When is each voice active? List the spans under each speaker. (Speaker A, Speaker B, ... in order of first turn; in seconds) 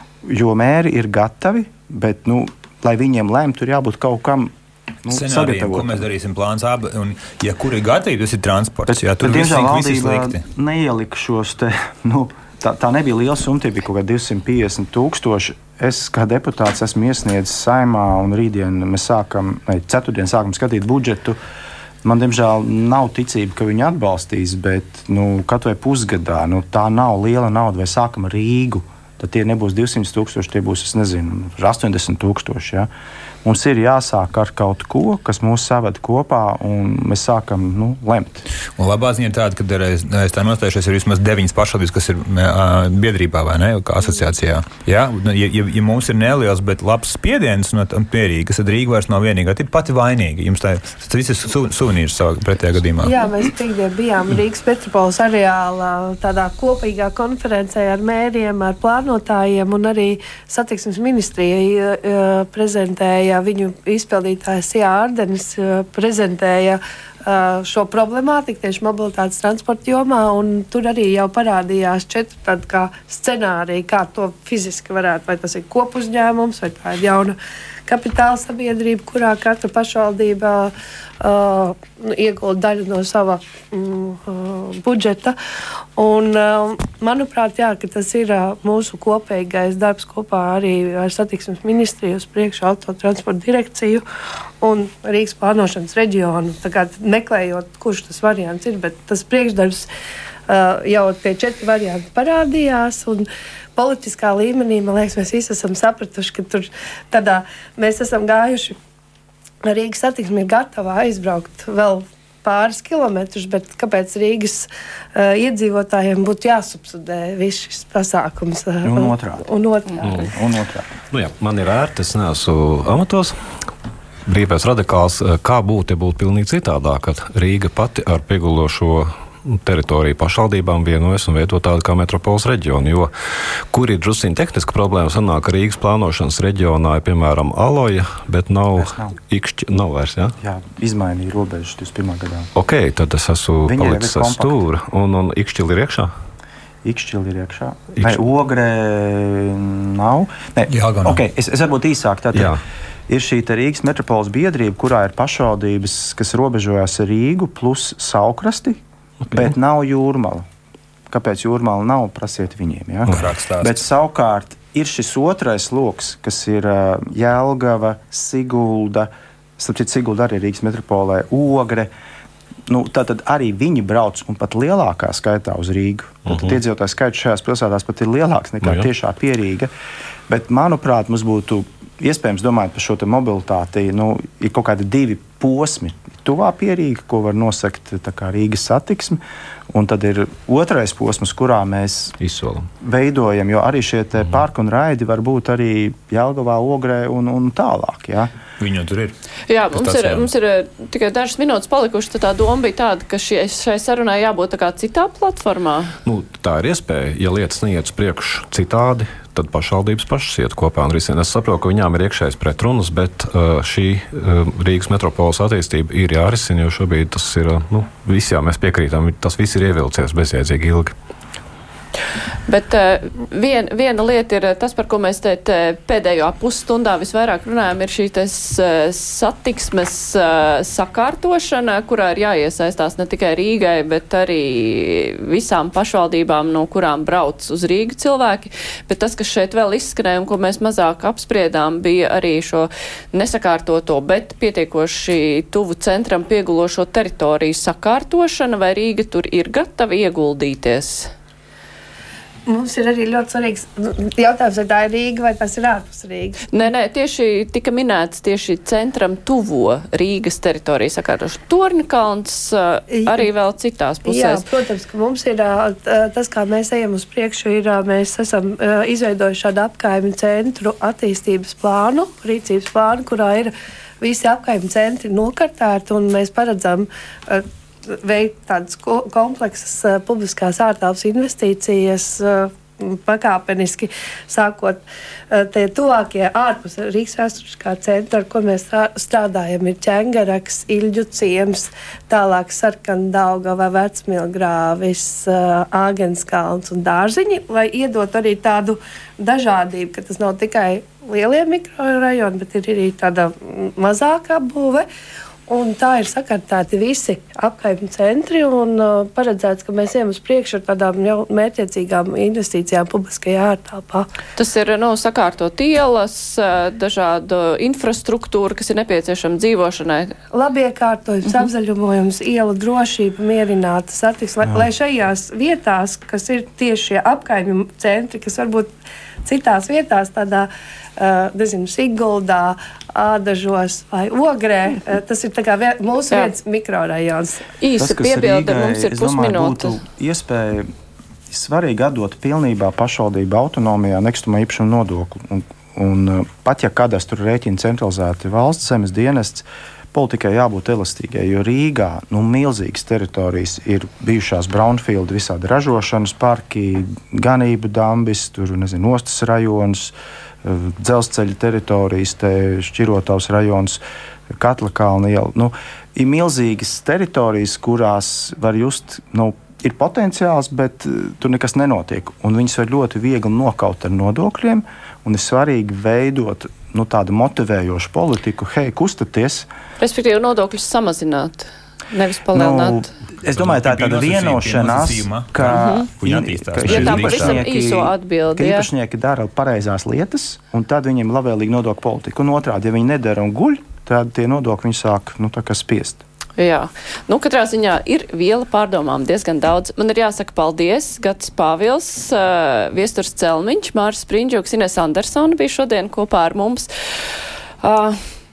Speaker A: 0.2-4.5, 5.0-6.0, 8.9-21.4, 22.0-32.9, 33.4-38.5, 118.8-119.5, 120.3-120.9, 138.8-139.1, 140.4-142.5, 143.7-144.6, 146.8-152.6, 153.1-160.4, 161.1-171.9, 172.7-179.7, 180.3-192.2, 192.8-198.3, 337.8-340.7, 341.3-363.8, 364.3-379.5, 382.3-396.0
Speaker B: 5.1-10.4, 38.8-53.3, 150.7-151.2, 163.1-163.8, 198.6-199.1, 199.7-200.3, 383.2-387.4
Speaker C: 53.0-85.3, 86.0-94.0, 94.6-99.9, 100.5-108.8, 109.6-120.3, 252.5-256.4, 262.9-263.3, 264.1-304.9, 305.5-314.1, 320.3-328.7, 329.2-337.4
Speaker D: 120.0-120.3, 121.1-123.3, 124.2-133.1, 133.7-140.3, 142.5-146.1, 152.3-152.6, 176.3-176.6, 192.2-192.7, 206.0-220.9
Speaker E: 199.5-205.9, 222.5-251.1, 256.5-264.4, 314.4-320.1, 337.6-339.8, 379.8-382.9, 385.4-385.9, 386.7-388.7, 396.4-406.7, 407.6-408.0